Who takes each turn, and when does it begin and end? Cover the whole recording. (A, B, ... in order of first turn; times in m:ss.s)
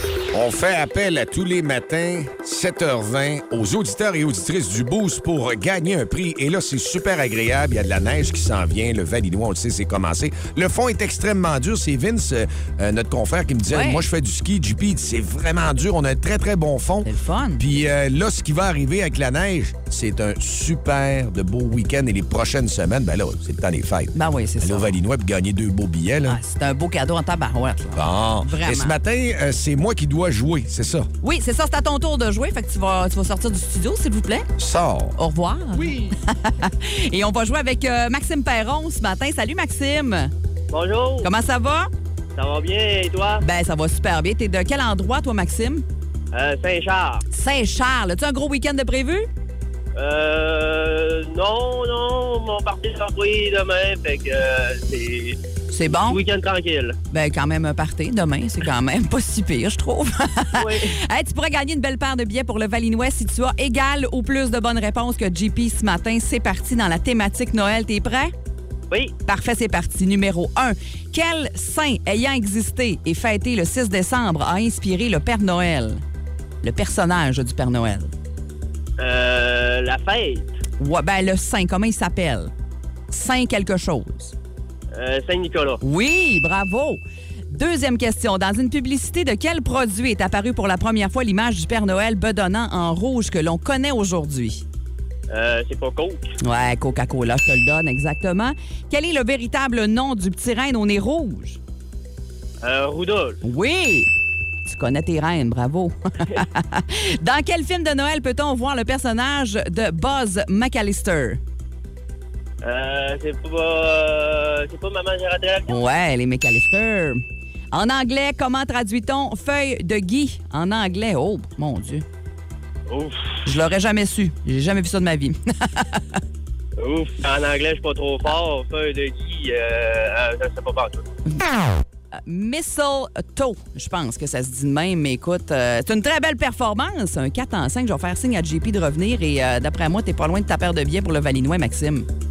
0:00.3-0:26.4 A
0:13.7-0:14.0 B
0:17.0-0:17.6 B
0:24.2-0:24.9 B
0:26.3-0:29.0 B
0:27.9-0:31.1 A
0:31.2-0:34.5 B
0:34.6-0:35.2 A
0:35.2-0:40.3 B
0:40.7-0:41.3 C
0:41.2-0:41.9 B
0:42.4-0:43.4 C
0:43.4-0:45.8 B
0:46.3-0:47.2 C
0:47.3-0:49.3 B
0:50.0-0:55.4 C
0:55.7-0:56.2 B
0:55.9-0:57.0 C
0:57.1-1:08.3 B
1:00.6-1:00.9 C
1:09.3-1:16.0 B
1:16.6-1:18.1 B
1:19.0-1:20.5 C
1:20.8-1:22.5 B
1:23.1-1:24.3 B
1:24.9-1:25.8 C
1:25.8-1:34.6 B
1:35.3-1:36.3 C
1:36.4-1:41.6 B
1:42.6-1:43.4 C
1:43.4-1:44.1 B
1:44.7-1:51.4 B
1:52.6-1:55.7 C
1:55.7-2:02.0 B
2:02.9-2:03.3 C
2:03.4-2:06.2 B
2:06.8-2:11.0 C
2:12.2-2:22.1 B